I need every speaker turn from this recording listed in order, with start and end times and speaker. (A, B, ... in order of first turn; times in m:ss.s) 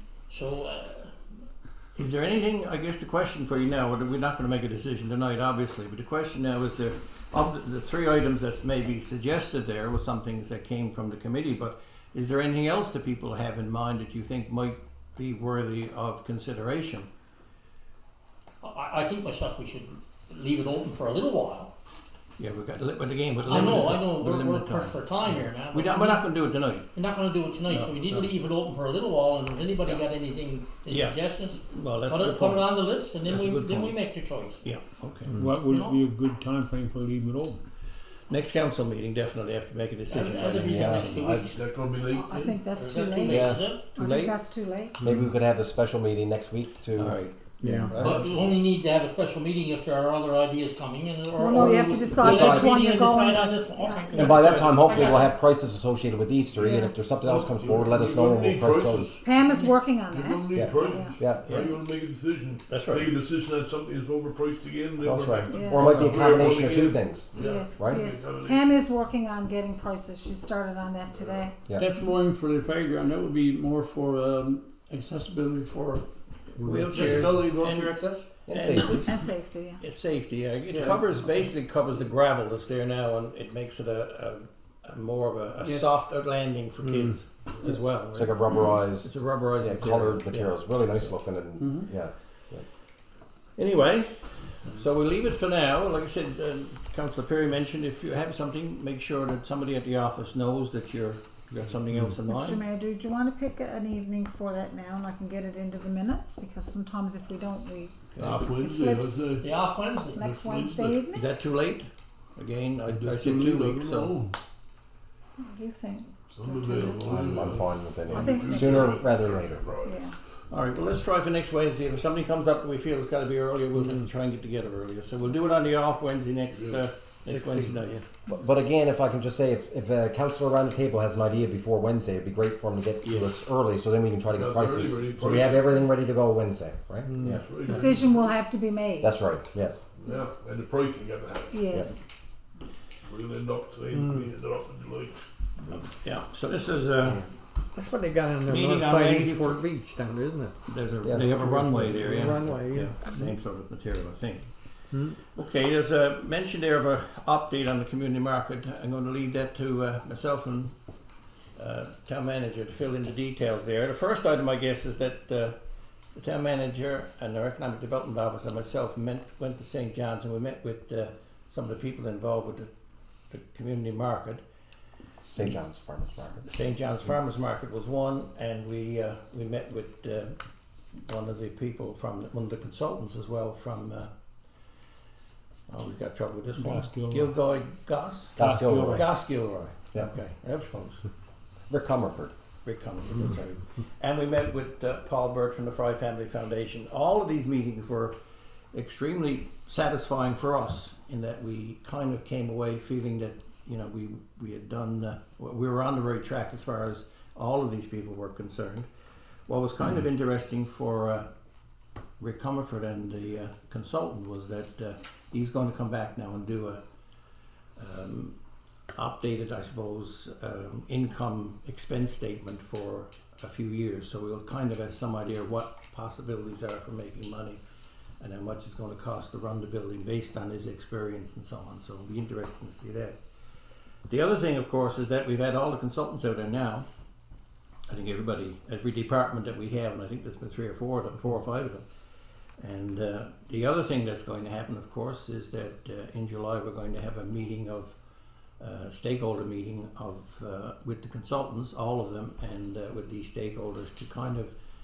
0:00.3-0:01.2 A
0:01.9-0:17.1 B
0:18.6-0:21.7 A
0:22.4-0:26.9 B
0:23.4-0:26.2 A
0:26.9-0:34.6 A
0:27.7-0:28.3 B
0:30.9-0:32.7 B
0:33.2-0:34.0 B
0:34.6-0:35.4 B
0:35.3-0:37.6 C
0:35.6-0:36.0 A
0:38.3-0:41.2 B
0:40.1-0:41.6 A
0:40.6-0:41.5 D
0:41.4-0:42.6 E
0:42.1-0:45.0 F
0:42.7-0:43.9 A
0:43.3-0:43.6 D
0:43.4-0:44.3 B
0:45.0-0:48.2 D
0:47.0-0:48.2 B
0:47.6-0:48.0 G
0:48.0-0:55.3 A
0:48.0-0:48.4 E
0:51.3-0:54.2 F
0:51.5-0:52.7 D
0:54.1-0:59.1 D
0:56.6-0:57.0 F
0:57.2-1:08.8 E
0:59.2-1:01.2 F
1:00.5-1:01.4 D
1:01.4-1:01.7 B
1:02.7-1:03.1 B
1:05.0-1:08.0 D
1:05.5-1:05.9 F
1:05.8-1:06.2 B
1:07.4-1:11.6 F
1:11.1-1:11.5 E
1:11.7-1:16.0 H
1:16.6-1:31.2 B
1:16.6-1:18.3 H
1:18.4-1:19.1 D
1:19.0-1:19.8 F
1:20.7-1:21.3 G
1:25.6-1:26.0 H
1:26.8-1:27.2 G
1:27.6-1:32.6 D
1:31.6-1:31.9 H
1:33.6-1:42.6 B
1:42.2-1:49.3 F
1:48.1-1:48.4 B
1:48.2-1:51.0 E
1:49.4-1:50.2 A
1:50.2-1:51.3 F
1:51.0-1:54.1 B
1:52.9-1:54.4 E
1:55.4-1:57.1 F
1:56.3-2:00.1 E
1:57.0-1:59.7 D
1:58.2-1:58.9 F
1:58.6-1:59.0 B
1:59.8-2:00.1 F
2:00.5-2:08.0 B
2:06.5-2:06.9 E
2:07.1-2:08.0 G
2:08.3-2:17.4 D
2:14.3-2:15.9 E
2:17.1-2:17.4 G
2:17.2-2:18.3 E
2:17.6-2:19.1 F
2:19.0-2:19.8 D
2:20.0-2:21.6 E
2:21.5-2:22.1 F
2:23.0-2:25.3 E
2:23.9-2:24.3 G
2:25.9-2:27.2 B
2:27.7-2:33.0 G
2:28.5-2:29.6 B
2:30.6-2:34.5 B
2:31.4-2:31.8 F
2:32.7-2:33.1 F
2:35.3-2:40.7 B
2:41.6-2:45.5 B
2:46.1-2:52.7 B
2:53.3-2:54.4 B
2:55.3-2:56.4 D
2:56.4-3:00.4 B
3:01.0-3:04.1 B
3:05.7-3:08.4 B
3:06.6-3:07.4 C
3:08.4-3:09.1 D
3:08.4-3:09.1 C
3:08.9-3:11.0 B
3:11.7-3:12.3 D
3:12.6-3:18.2 B
3:18.7-3:28.9 B
3:29.5-3:31.2 B
3:32.2-3:36.8 B
3:37.8-3:38.4 B
3:39.0-3:47.6 B
3:48.2-3:53.2 B
3:54.1-3:56.8 B
3:57.9-4:01.8 B
4:02.6-4:07.9 B
4:08.6-4:14.5 B